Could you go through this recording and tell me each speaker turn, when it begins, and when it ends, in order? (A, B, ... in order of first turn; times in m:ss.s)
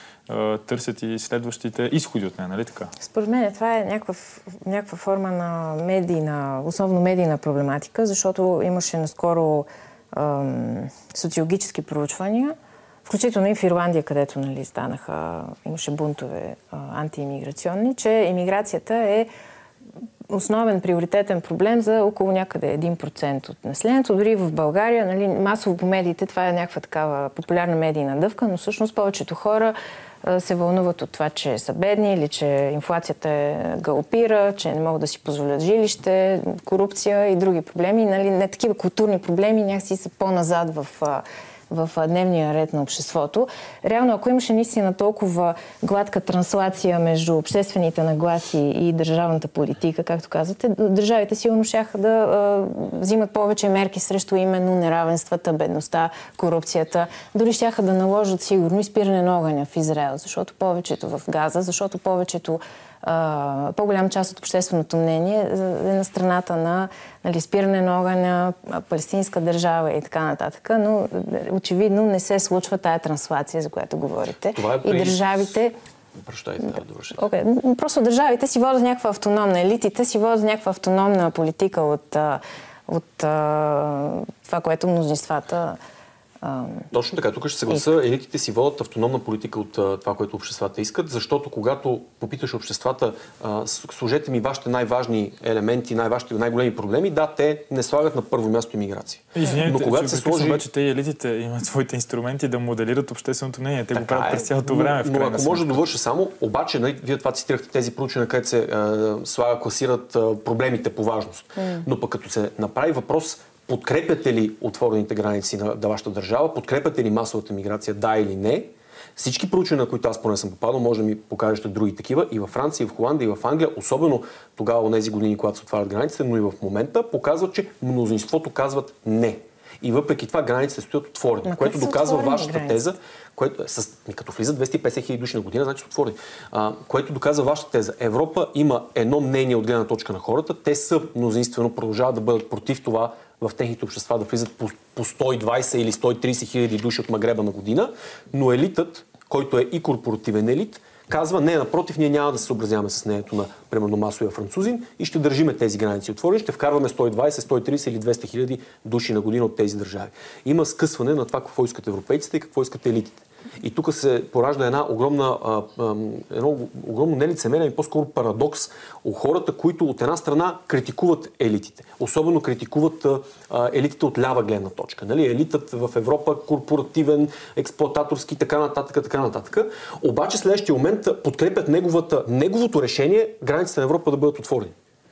0:00.3-0:02.9 A
0:03.0-0:19.3 B
0:20.3-1:15.8 B
1:14.6-1:15.4 C
1:16.2-1:17.2 C
1:17.2-1:25.8 B
1:26.4-1:26.9 B
1:26.9-1:40.6 C
1:39.3-1:45.8 A
1:43.9-3:04.8 C
1:51.6-1:51.9 B
2:11.4-2:12.9 B